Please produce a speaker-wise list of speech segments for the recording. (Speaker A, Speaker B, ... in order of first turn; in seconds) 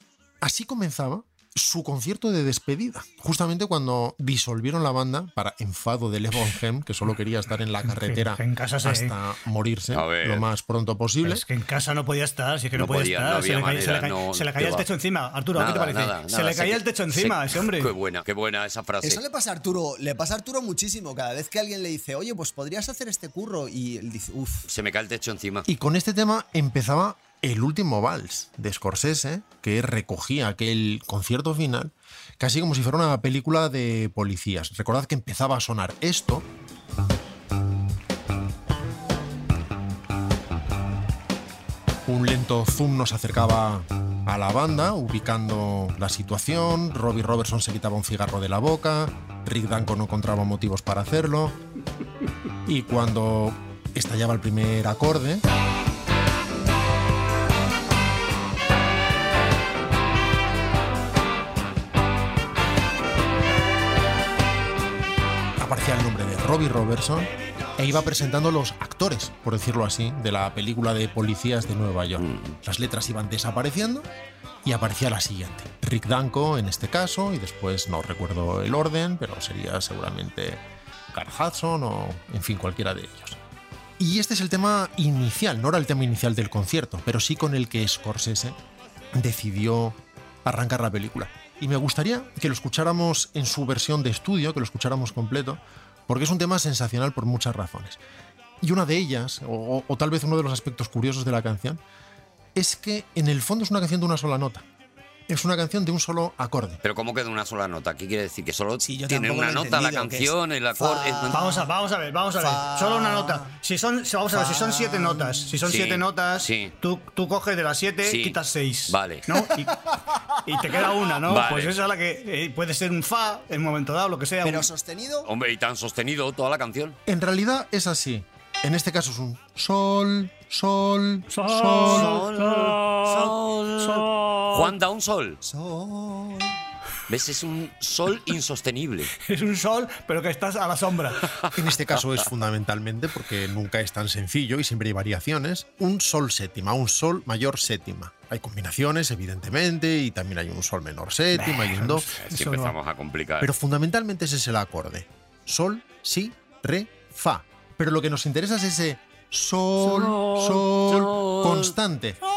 Speaker A: 0.4-11.4, 25.7-36.5, 42.0-51.6, 52.6-55.4, 65.6-74.1, 74.6-80.6, 81.1-83.4, 84.0-88.5, 89.1-98.0, 98.6-101.8, 102.5-104.6, 105.3-106.8, 127.1-132.2, 141.5-152.1, 153.4-162.2
Speaker B: 7.8-9.1, 11.2-17.9, 111.3-119.8, 120.3-124.7, 131.3-134.7, 139.2-141.3, 151.3-152.7
Speaker C: 9.9-10.4, 12.7-14.9, 15.5-19.2, 24.7-25.6, 72.2-72.6, 106.8-111.5, 115.6-116.7, 118.0-118.4, 118.9-119.2, 121.2-121.8, 125.2-127.0, 131.8-135.4, 137.1-139.1, 152.2-153.5, 159.8-161.7
Speaker D: 19.0-24.7, 108.8-111.7, 112.4-113.5, 114.3-115.6, 124.4-125.3, 135.4-136.6